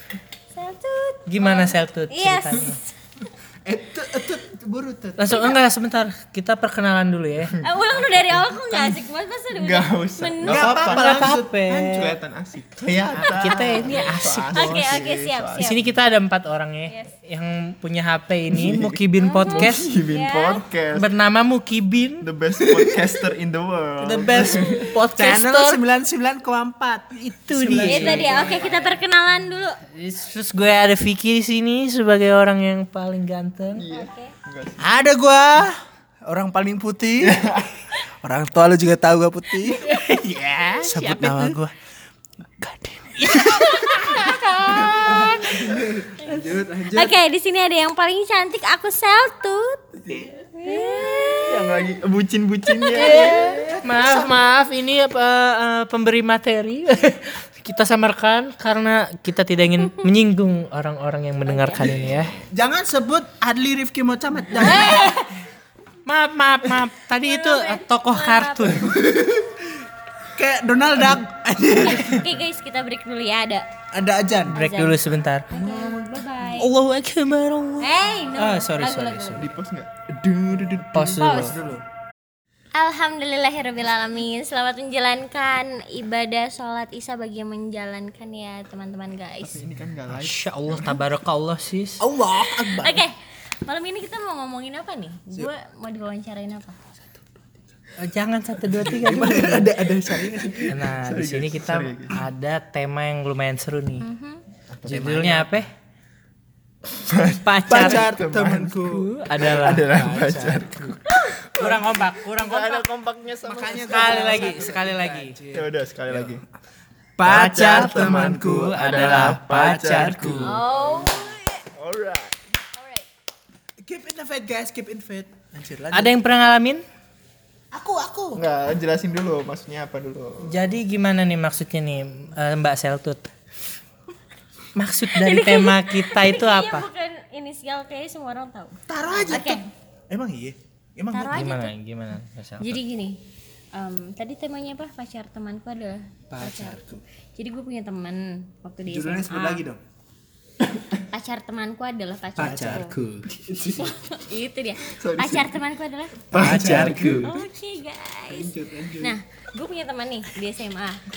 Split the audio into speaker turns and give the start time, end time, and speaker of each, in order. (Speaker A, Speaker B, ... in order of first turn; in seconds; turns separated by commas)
Speaker A: 0.5-2.9, Speaker B: 1.3-2.8, Speaker C: 3.6-5.3, Speaker B: 5.2-7.6, Speaker A: 5.3-5.6, Speaker A: 7.6-10.8, Speaker D: 7.6-8.5, Speaker D: 9.5-11.3, Speaker C: 10.4-12.2, Speaker B: 10.8-12.2, Speaker D: 11.9-15.8, Speaker B: 13.1-14.9, Speaker A: 13.6-15.8, Speaker B: 15.6-19.9, Speaker D: 18.5-21.1, Speaker A: 19.2-20.6, Speaker B: 20.9-22.3, Speaker D: 22.2-24.9, Speaker C: 22.7-23.0, Speaker B: 24.0-25.8, Speaker C: 24.2-28.7, Speaker B: 27.1-29.0, Speaker A: 27.8-29.8, Speaker B: 29.9-33.9, Speaker D: 33.8-34.9, Speaker A: 33.9-34.3, Speaker C: 34.8-37.3, Speaker D: 37.2-37.8, Speaker C: 37.9-39.9, Speaker B: 39.6-41.6, Speaker C: 40.8-41.7, Speaker C: 42.5-47.1, Speaker B: 43.2-45.6, Speaker A: 46.2-49.8, Speaker A: 50.5-51.9, Speaker B: 50.7-51.0, Speaker D: 51.5-53.4, Speaker A: 52.7-53.6, Speaker B: 52.9-62.4, Speaker C: 53.2-54.3, Speaker A: 61.4-61.9, Speaker D: 61.8-62.3, Speaker C: 62.5-65.1, Speaker A: 64.6-65.3, Speaker B: 64.6-65.1, Speaker B: 66.0-68.9, Speaker A: 67.1-68.9, Speaker C: 68.8-69.7, Speaker C: 70.3-72.2, Speaker A: 71.7-73.7, Speaker C: 73.9-74.6, Speaker A: 74.4-76.7, Speaker B: 74.5-75.5, Speaker C: 75.5-76.6, Speaker B: 76.6-79.5, Speaker A: 77.8-79.5, Speaker D: 79.3-79.9, Speaker C: 80.1-81.8, Speaker B: 80.9-81.5, Speaker A: 81.2-81.6, Speaker A: 82.7-89.6, Speaker D: 89.4-91.0, Speaker B: 90.1-92.0, Speaker C: 92.0-93.0, Speaker A: 92.5-93.1, Speaker A: 93.6-96.8, Speaker C: 97.0-97.6, Speaker B: 98.0-99.8, Speaker C: 98.8-100.8, Speaker D: 100.3-102.2, Speaker B: 100.7-104.0, Speaker A: 104.0-104.4, Speaker D: 104.7-105.3, Speaker B: 104.8-105.7, Speaker C: 105.1-105.6, Speaker D: 107.0-108.8, Speaker B: 107.4-108.1, Speaker C: 107.7-110.9, Speaker B: 108.8-110.2, Speaker D: 109.4-114.9, Speaker B: 111.5-112.8, Speaker C: 113.4-115.7, Speaker B: 113.7-115.4, Speaker D: 115.5-116.4, Speaker C: 117.2-121.3, Speaker B: 117.2-120.6, Speaker D: 117.2-120.5, Speaker A: 120.4-121.6, Speaker D: 121.7-122.4, Speaker A: 122.8-123.0, Speaker C: 123.8-126.2, Speaker B: 125.9-126.8, Speaker C: 127.7-128.4, Speaker D: 128.3-130.7, Speaker B: 130.4-133.3, Speaker B: 134.8-136.9, Speaker A: 135.1-139.7, Speaker C: 138.9-141.5, Speaker A: 141.1-141.7, Speaker B: 141.3-142.8, Speaker A: 142.6-143.2, Speaker A: 143.7-146.8, Speaker C: 146.3-147.0, Speaker A: 147.3-149.6, Speaker C: 148.8-149.8, Speaker A: 151.1-153.0, Speaker B: 152.3-153.3, Speaker C: 152.3-153.9, Speaker D: 153.3-153.9, Speaker A: 153.8-156.3, Speaker D: 154.9-155.6, Speaker D: 156.3-157.3, Speaker C: 156.4-157.3, Speaker B: 156.4-157.3, Speaker A: 157.2-161.0, Speaker C: 158.3-159.2